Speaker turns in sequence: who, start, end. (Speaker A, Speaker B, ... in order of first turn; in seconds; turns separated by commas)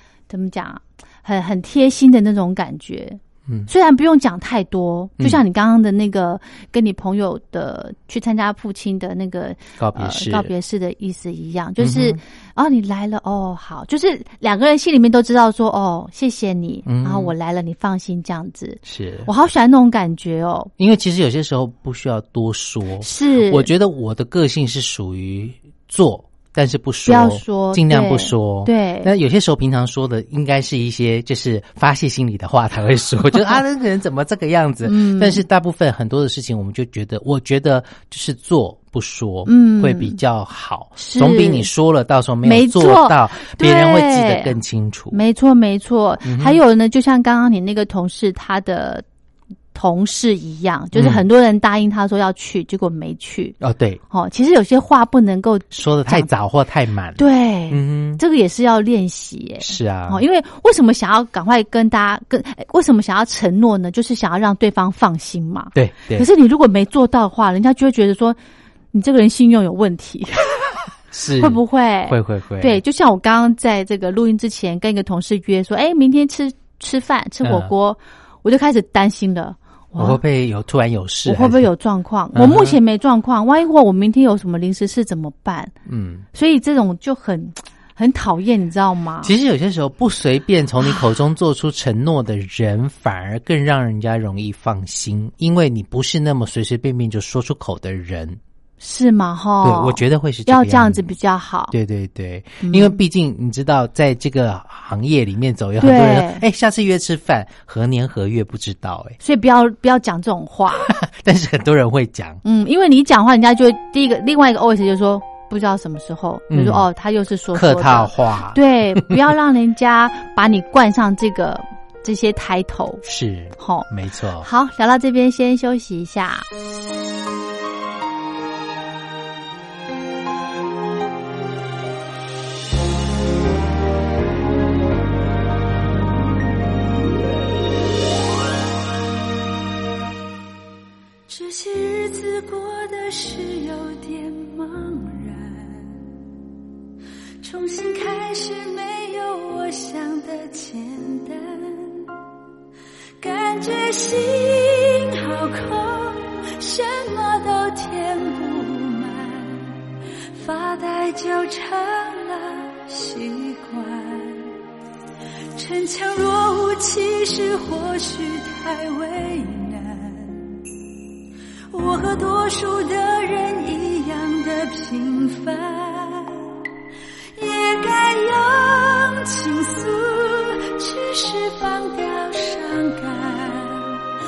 Speaker A: 0.3-20.7, Speaker B: 9.8-10.5, Speaker B: 11.8-12.2, Speaker B: 16.9-17.3, Speaker B: 18.9-19.3, Speaker B: 20.8-45.2, Speaker A: 23.0-23.7, Speaker A: 27.1-29.1, Speaker A: 34.9-35.4, Speaker A: 39.5-40.2, Speaker A: 41.0-41.7, Speaker A: 42.4-44.5, Speaker A: 45.1-49.0, Speaker B: 46.2-46.6, Speaker A: 49.7-53.6, Speaker B: 50.9-51.2, Speaker B: 53.6-54.0, Speaker A: 54.1-56.3, Speaker B: 55.7-58.2, Speaker A: 57.2-68.4, Speaker B: 59.6-60.2, Speaker B: 65.8-66.3, Speaker A: 68.9-70.6, Speaker B: 71.1-72.8, Speaker A: 71.4-80.2, Speaker B: 77.4-77.7, Speaker B: 80.0-81.7, Speaker A: 81.3-85.7, Speaker B: 82.3-82.8, Speaker B: 85.9-86.3, Speaker A: 86.3-89.3, Speaker B: 89.2-98.4, Speaker A: 98.8-101.7, Speaker B: 99.6-101.1, Speaker B: 101.7-109.2, Speaker A: 102.6-103.0, Speaker A: 105.8-106.4, Speaker A: 109.2-110.9, Speaker B: 110.9-112.4, Speaker A: 112.4-123.0, Speaker B: 116.5-116.9, Speaker B: 117.5-119.2, Speaker B: 123.0-124.5, Speaker A: 123.6-123.9, Speaker A: 124.4-126.5, Speaker C: 141.3-146.0, Speaker C: 147.4-152.1, Speaker C: 153.2-159.8, Speaker C: 160.3-164.5, Speaker C: 165.6-170.5, Speaker C: 171.7-176.4, Speaker C: 177.4-184.0